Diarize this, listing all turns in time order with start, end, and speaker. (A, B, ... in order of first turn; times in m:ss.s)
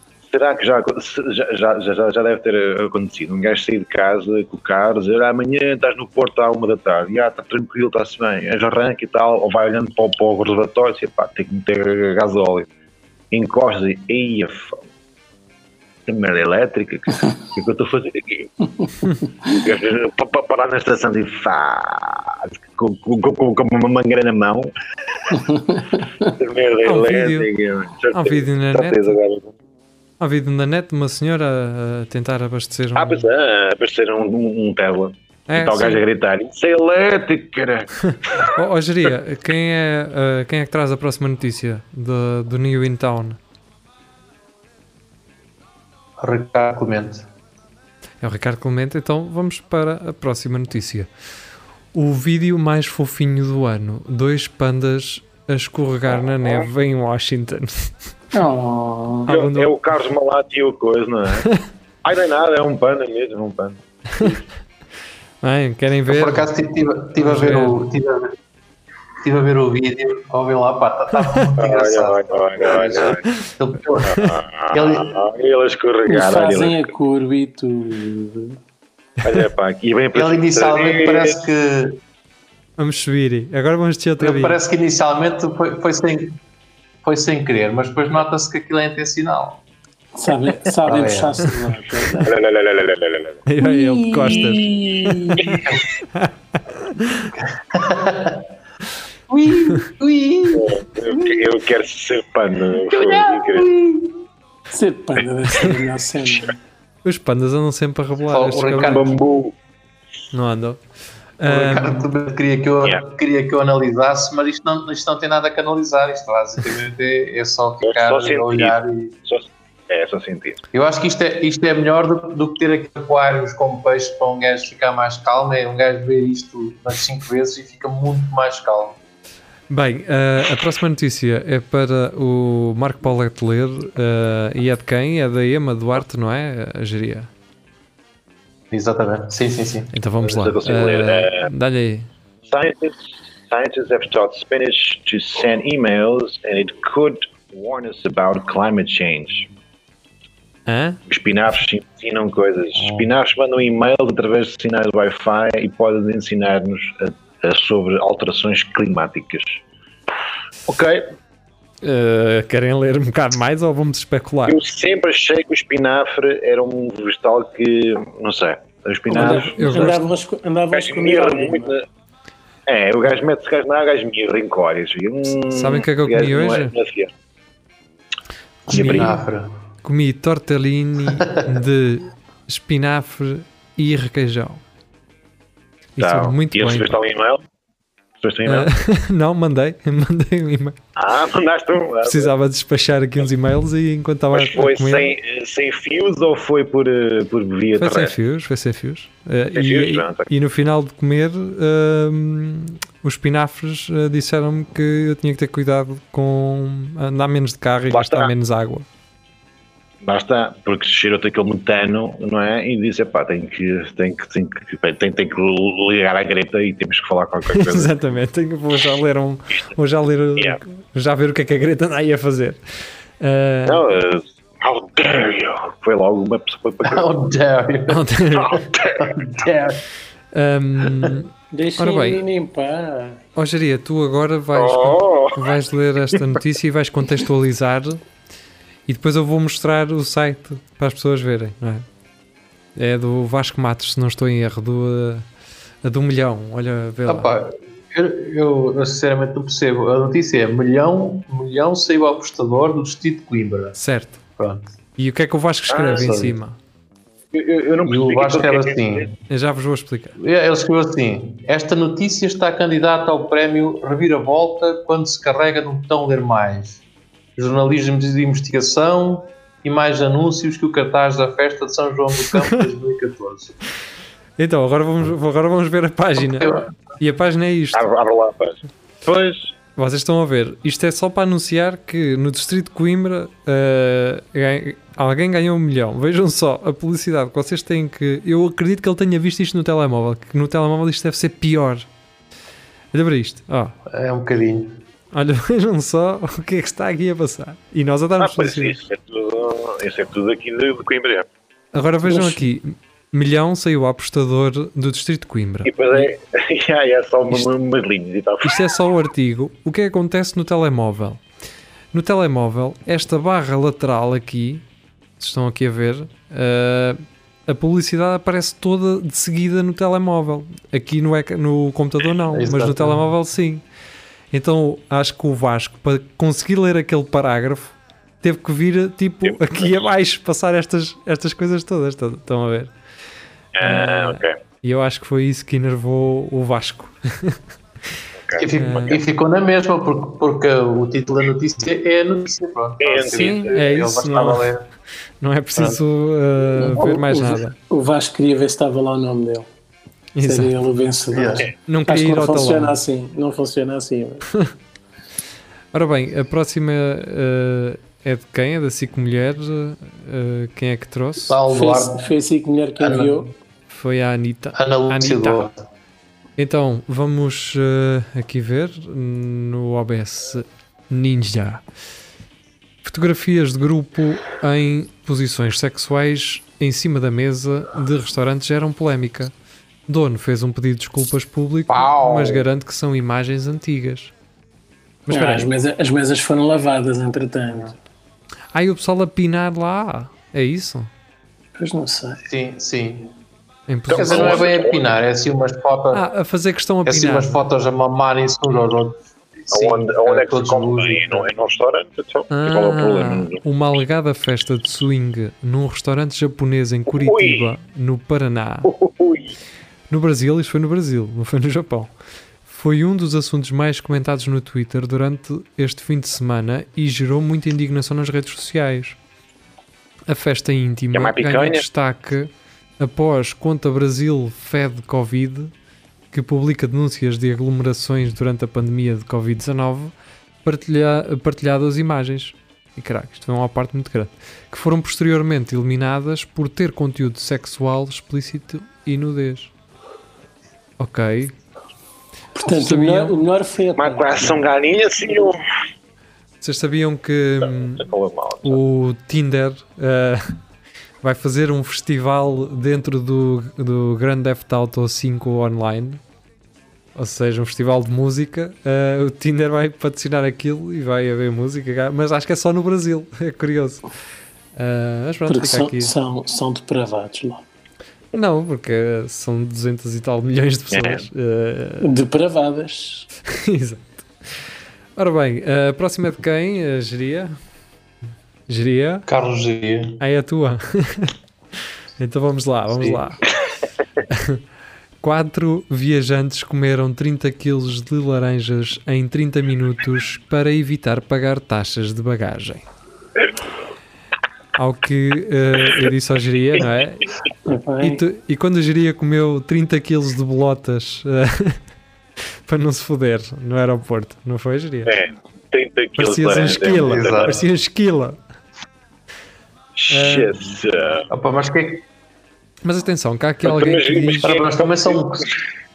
0:00.3-0:12.7 A
0:13.3-0:14.8 A
0:16.1-0:18.5 A
0:19.4-0:24.7 A
0:25.3-0:26.1 B
0:26.2-0:29.5 A
0:26.8-0:27.5 C
0:28.1-0:29.2 C
0:30.2-0:33.2 C
0:33.0-0:38.5 A
0:35.5-0:36.0 C
0:38.0-0:43.4 C
0:46.2-0:47.2 D
0:48.2-0:51.1 C
0:51.9-0:58.0 C
0:58.3-0:59.3 B
0:59.2-0:59.8 C
0:59.3-1:01.5 A
1:02.0-1:04.4 A
1:05.4-1:06.5 C
1:06.1-1:08.4 D
1:07.2-1:07.8 C
1:09.2-1:15.2 D
1:11.2-1:11.4 C
1:11.6-1:13.2 A
1:13.2-1:13.5 C
1:14.0-1:16.9 A
1:14.1-1:14.4 C
1:16.0-1:18.6 B
1:19.2-1:21.4 A
1:20.1-1:22.0 D
1:22.8-1:24.6 C
1:24.2-1:26.4 D
1:27.0-1:29.6 D
1:30.1-1:32.3 B
1:30.8-1:31.4 D
1:32.2-1:33.4 A
1:33.5-1:34.7 C
1:33.6-1:35.4 B
1:35.3-1:37.3 C
1:37.4-1:38.4 D
1:39.3-1:41.5 D
1:40.5-1:43.7 A
1:42.9-1:44.2 D
1:44.7-1:46.6 B
1:47.0-1:49.0 C
1:48.3-1:49.2 D
1:48.7-1:49.5 A
1:50.3-1:50.8 C
1:51.4-1:52.1 C
1:51.4-1:59.1 D
1:57.8-2:00.6 A
2:00.7-2:09.0 D
2:09.7-2:17.3 C
2:18.7-2:19.9 D
2:19.9-2:22.1 C
2:20.2-2:21.5 A
2:22.5-2:29.5 A
2:30.7-2:31.0 C
2:31.1-2:39.6 A
2:40.7-2:41.1 A
2:41.8-2:44.6 C
2:44.5-2:50.0 A
2:49.1-2:50.0 C
2:49.1-2:51.7 B
2:50.7-2:51.8 A
2:52.7-2:57.1 A
2:55.5-2:56.7 C
2:58.7-2:59.5 D
2:58.7-2:59.2 C
2:58.7-2:59.1 A
2:59.8-3:04.6 C
3:01.1-3:01.4 D
3:06.0-3:06.9 C
3:06.0-3:07.4 A
3:08.2-3:08.7 A
3:08.4-3:10.8 C
3:11.0-3:12.3 A
3:12.0-3:15.1 C
3:14.3-3:18.1 A
3:17.8-3:28.9 C
3:19.5-3:20.3 A
3:27.9-3:28.3 A
3:30.0-3:38.0 A
3:37.5-3:42.6 C
3:43.2-3:43.9 C
3:43.7-3:47.0 A
3:46.8-3:48.0 D
3:47.9-3:48.6 C
3:48.4-3:49.5 A
3:49.0-3:49.8 D
3:50.3-3:52.2 C
3:51.5-3:53.2 B
3:53.4-3:58.0 C
3:54.5-3:55.5 A
3:58.9-4:01.8 C
4:02.8-4:05.2 C
4:05.8-4:07.3 C
4:07.1-4:13.8 D
4:13.8-4:14.2 C
4:14.4-4:14.7 D
4:15.0-4:16.6 C
4:15.7-4:16.3 A
4:15.9-4:16.3 D
4:17.3-4:19.1 A
4:17.9-4:19.1 D
4:19.3-4:20.2 C
4:20.2-4:26.8 D
4:27.4-4:33.6 D
4:32.3-4:32.6 C
4:34.4-4:37.9 C
4:36.2-4:36.7 D
4:37.7-4:39.5 A
4:39.8-4:51.9 C
4:52.9-4:53.8 C
4:53.9-4:54.8 D
4:55.1-4:58.8 C
4:58.2-5:01.3 A
5:01.7-5:06.1 C
5:02.1-5:02.4 B
5:05.6-5:08.6 A
5:08.4-5:11.2 C
5:11.9-5:14.6 C
5:15.2-5:23.6 C
5:22.3-5:23.0 D
5:24.3-5:32.7 C
5:29.2-5:29.8 A
5:33.5-5:34.4 A
5:33.6-5:37.4 C
5:38.2-5:39.0 A
5:38.4-5:44.6 D
5:38.5-5:39.0 C
5:42.8-5:43.6 A
5:43.1-5:44.5 C
5:45.2-5:47.6 C
5:46.6-5:49.5 B
5:50.1-5:50.5 C
5:50.2-5:54.2 B
5:51.1-5:51.4 D
5:51.7-5:52.8 C
5:55.7-6:01.4 C
6:01.2-6:02.0 D
6:01.5-6:03.3 B
6:02.8-6:03.2 D
6:03.7-6:05.5 C
6:04.5-6:05.6 D
6:06.4-6:11.6 C
6:12.8-6:19.3 C
6:19.9-6:24.1 C
6:21.7-6:22.4 A
6:25.1-6:25.5 C
6:25.1-6:27.8 B
6:28.5-6:30.9 C
6:31.6-6:32.2 B
6:32.2-6:33.1 D
6:33.7-6:34.4 C
6:33.9-6:34.9 A
6:33.9-6:36.0 D
6:35.9-6:37.4 C
6:36.9-6:41.2 D
6:39.5-6:43.4 A
6:42.3-6:48.7 C
6:46.9-6:47.5 A
6:48.7-6:49.3 A
6:49.9-6:51.9 C
6:52.5-6:59.0 C
7:00.1-7:05.5 C
7:00.9-7:01.6 A
7:06.1-7:19.5 C
7:20.8-7:21.3 C
7:22.4-7:24.4 B
7:22.4-7:23.1 C
7:23.8-7:25.4 A
7:26.4-7:27.9 C
7:27.4-7:28.6 A
7:28.4-7:30.4 C
7:31.0-7:36.0 C
7:37.0-7:43.9 C
7:44.6-7:45.9 C
7:45.3-7:47.4 B
7:48.1-7:51.9 C
7:50.7-7:51.0 A
7:51.8-7:53.1 B
7:53.3-7:54.4 C
7:55.0-7:57.3 C
7:58.5-7:59.1 C
7:59.1-8:00.0 D
8:00.0-8:01.1 C
8:02.0-8:03.3 C
8:04.1-8:04.4 C
8:05.0-8:12.6 C
8:14.6-8:17.1 C
8:17.5-8:18.0 B
8:17.8-8:21.6 C
8:22.4-8:24.9 C
8:24.9-8:27.4 A
8:26.0-8:28.2 C
8:26.8-8:27.4 D
8:29.8-8:31.1 A
8:29.9-8:30.3 C
8:31.1-8:31.8 D
8:32.6-8:34.4 C
8:33.4-8:35.3 A
8:34.2-8:35.3 D